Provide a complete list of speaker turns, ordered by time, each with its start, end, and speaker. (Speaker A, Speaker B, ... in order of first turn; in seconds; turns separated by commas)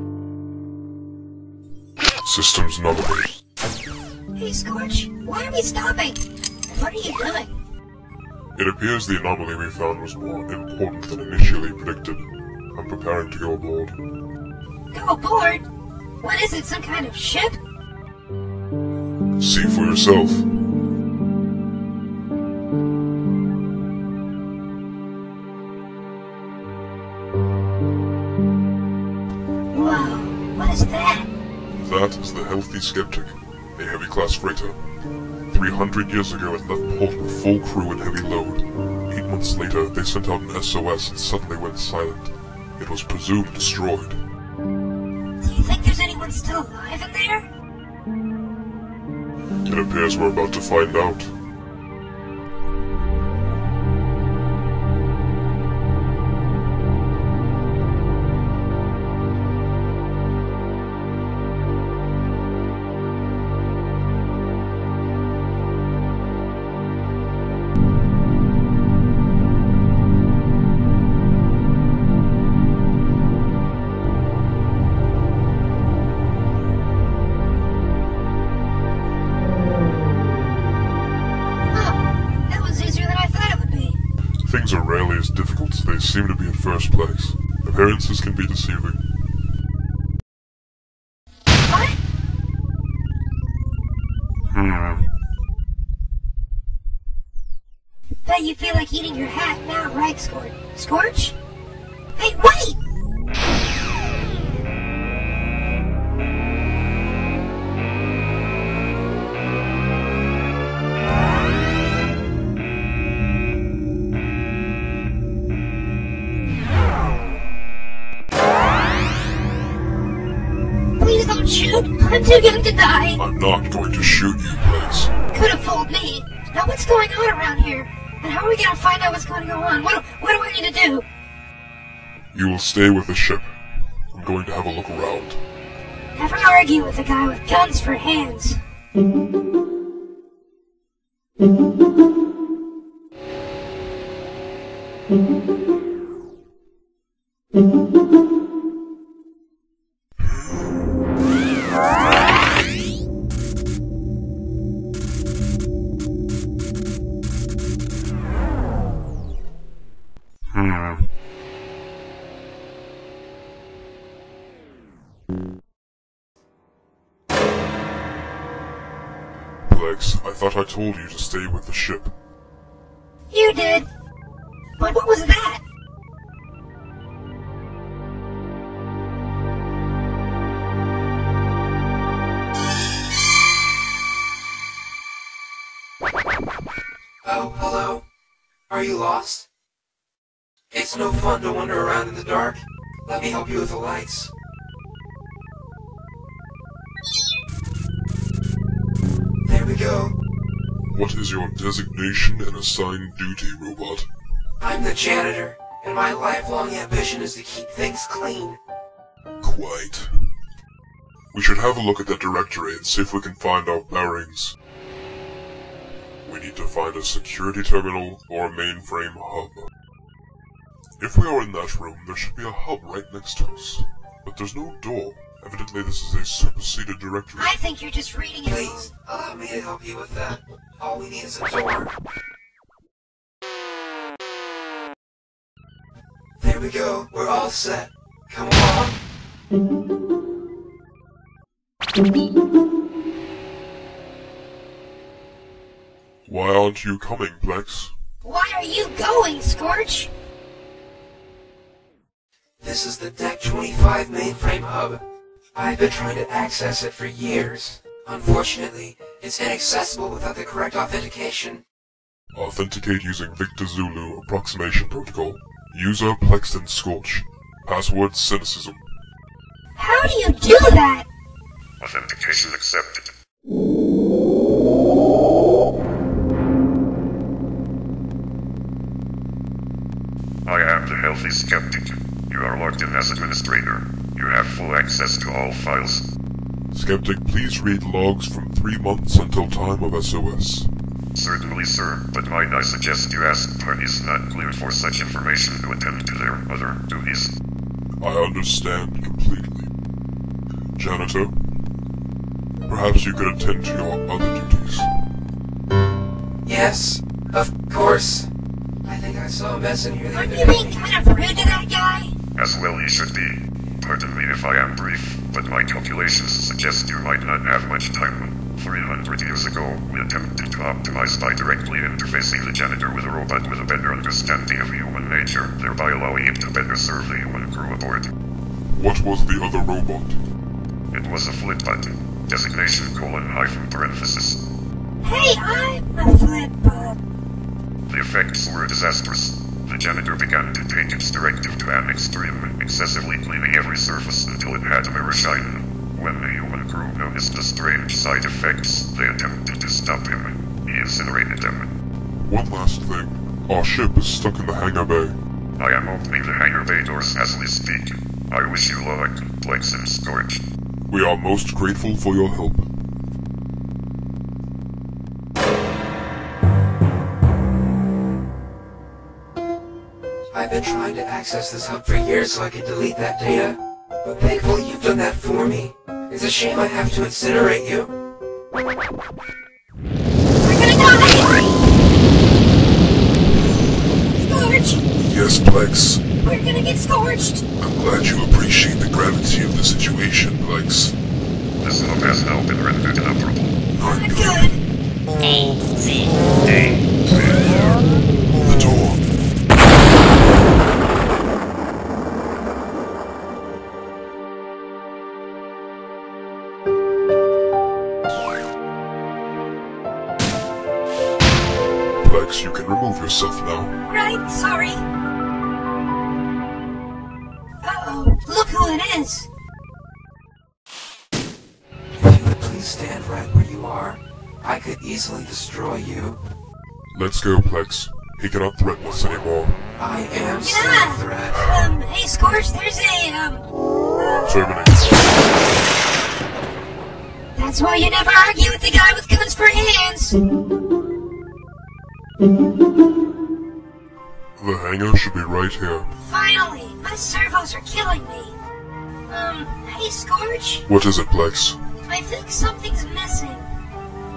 Speaker A: 2.2-3.3, Speaker B: 4.3-7.5, Speaker A: 8.6-14.0, Speaker B: 14.9-15.7, Speaker B: 16.2-17.6, Speaker A: 19.4-20.5, Speaker B: 29.7-31.3, Speaker A: 31.8-34.8, Speaker A: 35.5-44.2, Speaker B: 45.4-47.5, Speaker A: 49.6-51.3, Speaker B: 81.7-84.0, Speaker A: 84.4-89.0, Speaker B: 91.5-92.0, Speaker A: 94.5-95.1, Speaker B: 98.2-101.3, Speaker B: 102.2-102.8, Speaker B: 121.0-123.2, Speaker A: 123.2-125.1, Speaker B: 125.3-131.1, Speaker A: 132.3-133.5, Speaker A: 134.1-135.4, Speaker B: 136.1-138.6, Speaker A: 169.7-172.1, Speaker B: 173.3-173.9, Speaker B: 174.8-175.6, Speaker C: 187.2-188.0, Speaker C: 188.7-189.5, Speaker C: 190.7-194.3, Speaker C: 199.4-200.2, Speaker A: 200.9-204.1, Speaker C: 204.6-208.6, Speaker A: 209.4-210.3, Speaker A: 211.3-214.6, Speaker A: 216.2-219.7, Speaker A: 221.0-227.6, Speaker B: 227.3-228.9, Speaker C: 228.4-231.9, Speaker C: 236.4-239.0, Speaker A: 246.2-247.9, Speaker B: 248.2-250.1, Speaker C: 252.6-255.0, Speaker C: 255.5-261.6, Speaker A: 262.3-268.8, Speaker B: 269.8-271.1, Speaker D: 271.8-273.1, Speaker D: 280.4-286.0, Speaker A: 286.7-290.7, Speaker D: 291.1-297.3, Speaker A: 298.0-299.7, Speaker A: 300.8-301.4, Speaker A: 302.6-304.9, Speaker C: 306.4-308.3, Speaker C: 308.8-310.8, Speaker B: 310.1-312.1, Speaker D: 312.4-328.1, Speaker A: 328.7-330.2, Speaker D: 330.9-334.4, Speaker B: 335.0-337.0, Speaker D: 337.9-351.7, Speaker A: 352.3-355.2, Speaker D: 355.6-360.4, Speaker A: 360.9-362.7, Speaker C: 370.3-377.9, Speaker B: 380.4-381.5, Speaker A: 383.4-383.9, Speaker B: 384.2-384.8, Speaker A: 384.9-386.0, Speaker B: 386.2-387.4, Speaker A: 387.6-390.9, Speaker D: 391.6-393.6, Speaker A: 393.7-394.5, Speaker B: 393.8-394.6, Speaker A: 398.4-399.0, Speaker A: 412.0-413.8, Speaker B: 413.8-414.8, Speaker B: 417.6-419.3, Speaker C: 422.0-426.2, Speaker A: 426.9-429.6, Speaker C: 429.8-431.6, Speaker B: 430.4-434.3, Speaker A: 434.2-435.0, Speaker B: 437.3-440.2, Speaker A: 444.4-445.9, Speaker B: 446.0-448.4, Speaker B: 449.1-450.6, Speaker A: 450.7-451.6, Speaker B: 451.9-453.5